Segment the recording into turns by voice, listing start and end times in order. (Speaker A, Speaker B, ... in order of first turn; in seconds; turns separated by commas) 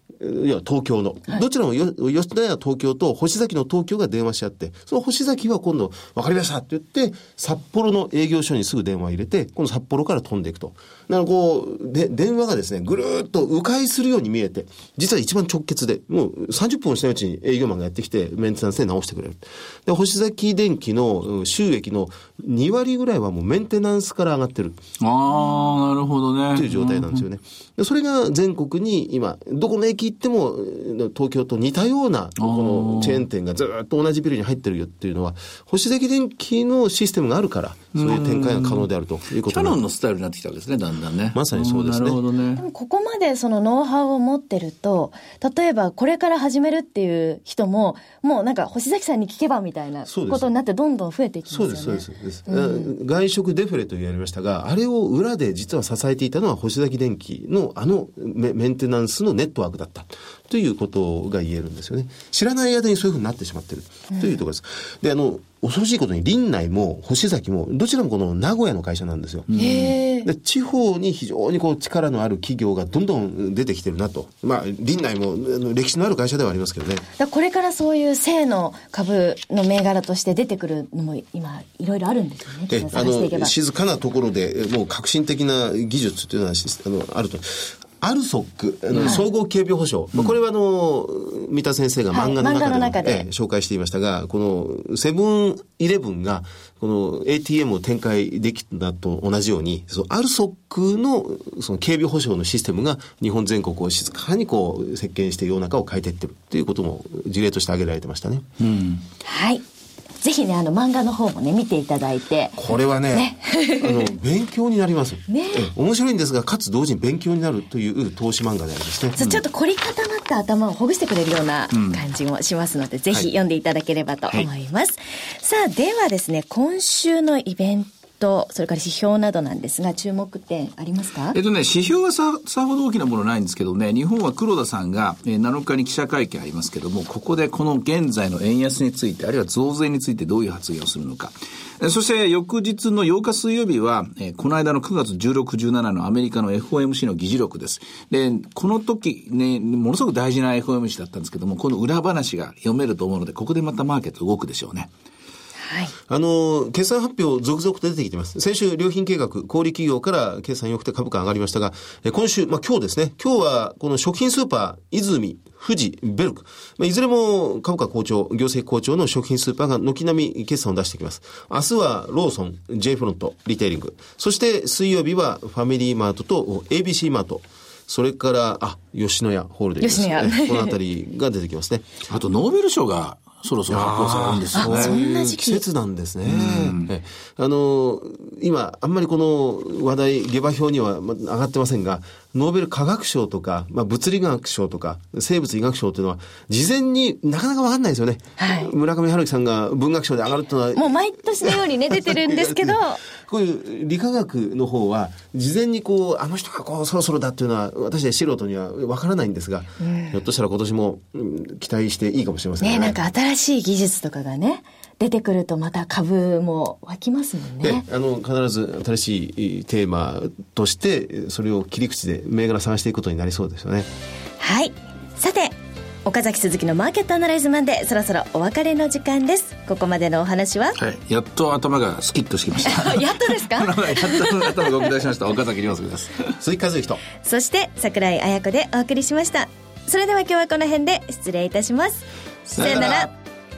Speaker A: 0.2-24.8, Speaker B: 25.0-27.2, Speaker A: 26.5-39.8, Speaker B: 32.4-33.2, Speaker B: 37.9-38.9, Speaker B: 39.4-42.6, Speaker A: 41.3-42.2, Speaker C: 42.6-52.9, Speaker A: 50.1-50.5, Speaker A: 51.5-69.5, Speaker B: 69.5-70.0, Speaker C: 69.5-70.3, Speaker A: 70.2-77.0, Speaker C: 77.2-83.5, Speaker A: 82.7-108.5, Speaker C: 89.0-89.2, Speaker C: 92.1-93.2, Speaker B: 108.6-109.0, Speaker C: 109.2-109.6, Speaker C: 110.2-112.6, Speaker A: 112.6-119.2, Speaker C: 113.1-114.1, Speaker C: 115.3-115.7, Speaker C: 119.2-131.4, Speaker B: 121.7-122.0, Speaker B: 131.3-154.9, Speaker C: 155.6-155.9, Speaker A: 156.1-181.9, Speaker C: 179.8-180.8, Speaker B: 182.1-185.0, Speaker A: 183.7-213.0, Speaker C: 184.5-185.6, Speaker B: 186.2-186.9, Speaker C: 198.4-198.7, Speaker C: 200.7-203.0, Speaker C: 209.8-210.2, Speaker C: 212.6-217.8, Speaker A: 217.6-223.9, Speaker C: 224.4-230.8, Speaker B: 230.8-236.3, Speaker C: 232.6-234.9, Speaker A: 236.4-237.0, Speaker C: 237.2-243.1, Speaker B: 242.6-243.1